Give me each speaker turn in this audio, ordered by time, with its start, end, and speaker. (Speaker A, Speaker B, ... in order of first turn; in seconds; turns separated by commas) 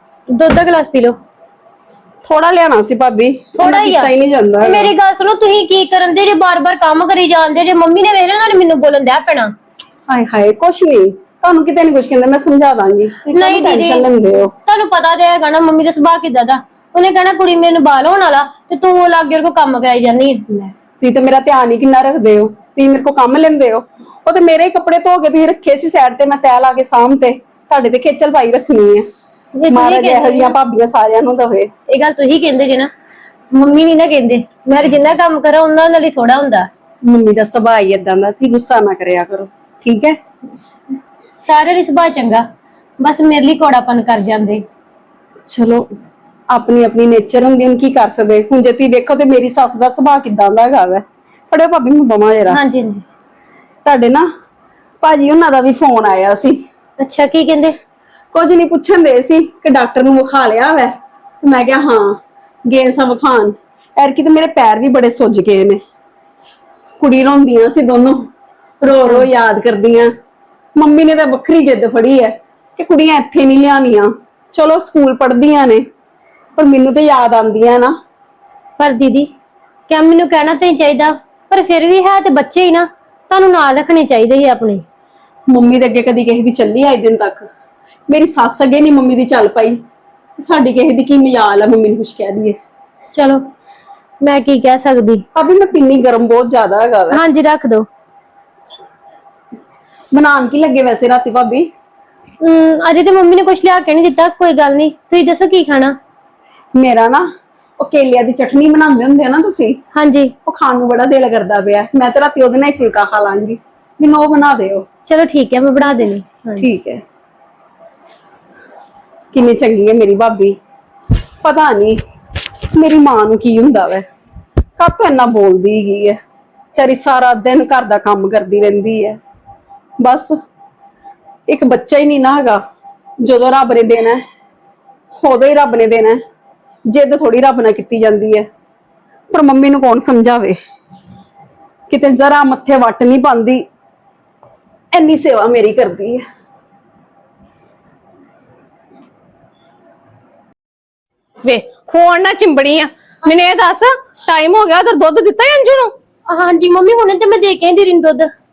Speaker A: 0.3-1.2, Speaker B: 2.2-4.9, Speaker A: 3.6-9.5, Speaker B: 10.1-14.5, Speaker A: 13.3-14.1, Speaker A: 14.7-20.7, Speaker B: 21.0-29.1, Speaker A: 29.6-30.5, Speaker B: 29.7-31.7, Speaker A: 31.9-32.9, Speaker A: 33.5-36.7, Speaker B: 37.0-40.2, Speaker A: 41.4-42.4, Speaker A: 43.0-44.6, Speaker B: 45.5-45.9, Speaker B: 46.5-52.6, Speaker A: 52.5-53.0, Speaker B: 53.9-54.3, Speaker B: 55.0-56.6, Speaker A: 57.0-57.8, Speaker B: 58.3-65.8, Speaker B: 67.0-68.3, Speaker B: 68.8-70.1, Speaker B: 70.8-75.8, Speaker B: 76.5-77.9, Speaker A: 78.8-79.3, Speaker A: 79.9-84.8, Speaker B: 85.5-87.5, Speaker B: 88.1-89.8, Speaker B: 90.4-92.6, Speaker A: 93.1-93.4, Speaker A: 94.2-95.2, Speaker B: 95.3-97.2, Speaker A: 97.1-97.8, Speaker B: 100.1-101.7, Speaker A: 102.4-106.0, Speaker B: 106.7-107.2, Speaker B: 107.8-109.8, Speaker A: 109.9-110.3, Speaker B: 110.5-114.8, Speaker A: 115.1-116.7, Speaker B: 116.6-117.0, Speaker B: 119.3-120.6, Speaker B: 121.4-122.0, Speaker B: 122.7-124.0, Speaker B: 124.8-126.2, Speaker B: 126.8-129.2, Speaker B: 130.0-130.3, Speaker B: 131.5-132.6, Speaker B: 133.2-134.2, Speaker B: 135.2-136.2, Speaker B: 136.9-138.5, Speaker B: 139.3-140.6, Speaker B: 141.9-143.7, Speaker B: 144.9-146.2, Speaker C: 151.4-155.9, Speaker A: 156.3-158.3